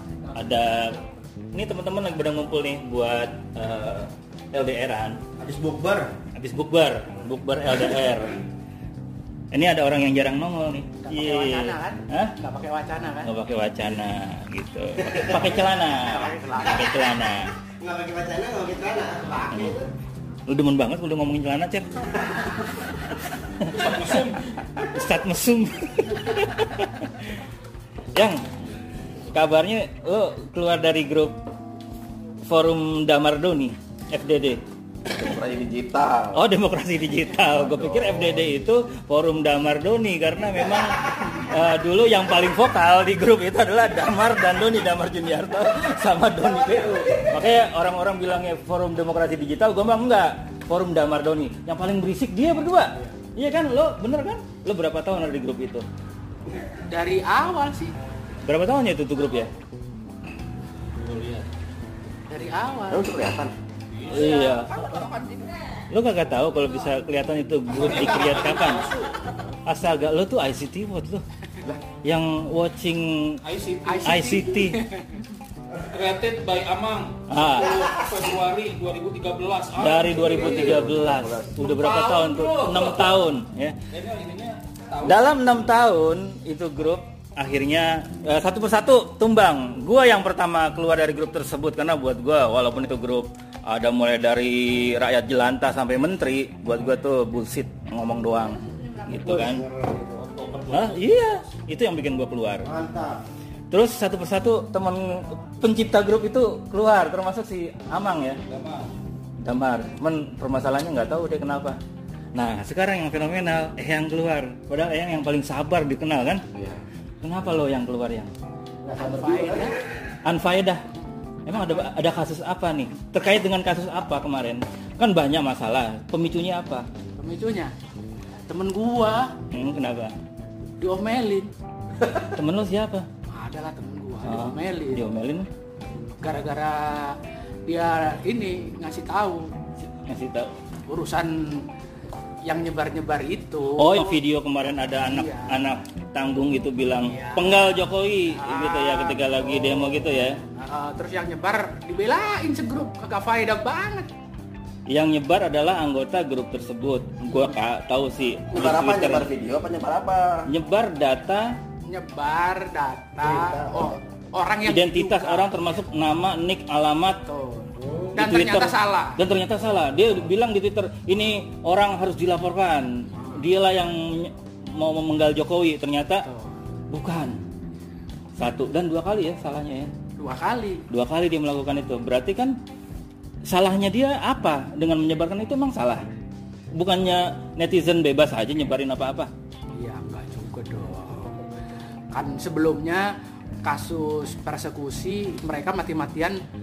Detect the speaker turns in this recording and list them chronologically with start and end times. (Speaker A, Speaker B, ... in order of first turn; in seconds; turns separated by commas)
Speaker A: 0.3-1.0, Speaker A: 1.5-5.2, Speaker B: 5.4-6.2, Speaker A: 6.3-8.4, Speaker A: 9.5-12.3, Speaker C: 11.0-13.3, Speaker A: 13.2-17.5, Speaker C: 16.3-16.7, Speaker B: 17.8-19.9, Speaker A: 19.5-19.8, Speaker A: 20.5-22.1, Speaker A: 22.9-27.3, Speaker D: 23.9-24.4, Speaker A: 28.1-28.4, Speaker A: 29.3-31.4, Speaker A: 32.5-34.6, Speaker E: 35.0-36.4, Speaker A: 36.3-55.9, Speaker E: 37.6-38.4, Speaker C: 56.9-57.9, Speaker A: 58.5-59.5, Speaker D: 60.9-61.5, Speaker C: 62.3-63.1, Speaker E: 62.9-63.5, Speaker A: 64.0-64.9, Speaker D: 64.9-65.2, Speaker A: 65.9-68.9, Speaker D: 67.8-69.3, Speaker A: 69.7-71.2, Speaker A: 72.0-73.4, Speaker D: 73.4-74.1, Speaker C: 73.8-75.2, Speaker A: 74.0-74.8, Speaker D: 75.8-80.7, Speaker A: 77.3-77.8, Speaker A: 79.8-83.7, Speaker E: 80.1-81.6, Speaker D: 81.6-83.2, Speaker D: 83.9-85.2, Speaker A: 85.0-99.7, Speaker B: 99.3-100.3, Speaker D: 100.2-101.3, Speaker A: 100.7-102.7, Speaker B: 102.6-103.2, Speaker A: 103.7-108.4, Speaker D: 108.5-108.9, Speaker A: 109.4-111.8, Speaker A: 112.3-116.4, Speaker E: 116.5-116.8, Speaker A: 117.2-118.3, Speaker B: 118.8-119.7, Speaker C: 118.9-119.8, Speaker A: 120.2-120.8, Speaker A: 121.5-126.8, Speaker C: 127.2-127.7, Speaker C: 128.5-129.3, Speaker A: 129.5-130.1, Speaker C: 130.8-131.5, Speaker A: 132.1-133.1, Speaker C: 133.3-135.0, Speaker A: 134.2-135.5, Speaker C: 136.2-139.5, Speaker A: 139.9-140.5, Speaker C: 140.9-141.7, Speaker C: 142.4-144.2, Speaker A: 143.8-150.4, Speaker C: 145.1-145.6, Speaker C: 147.0-147.7, Speaker C: 148.3-149.9, Speaker C: 150.5-154.1, Speaker A: 154.9-159.3, Speaker E: 158.5-160.5, Speaker A: 160.5-161.5, Speaker C: 161.8-165.6, Speaker B: 163.3-163.9, Speaker A: 164.6-167.2, Speaker C: 167.2-169.2, Speaker B: 167.8-168.1, Speaker A: 168.1-176.2, Speaker C: 173.2-173.5, Speaker C: 176.2-176.5, Speaker A: 176.9-177.4, Speaker A: 178.4-179.9, Speaker C: 180.2-180.8, Speaker A: 180.9-182.5, Speaker A: 183.4-186.1, Speaker A: 186.7-189.3, Speaker C: 189.7-191.4, Speaker C: 192.1-193.1, Speaker C: 193.6-196.4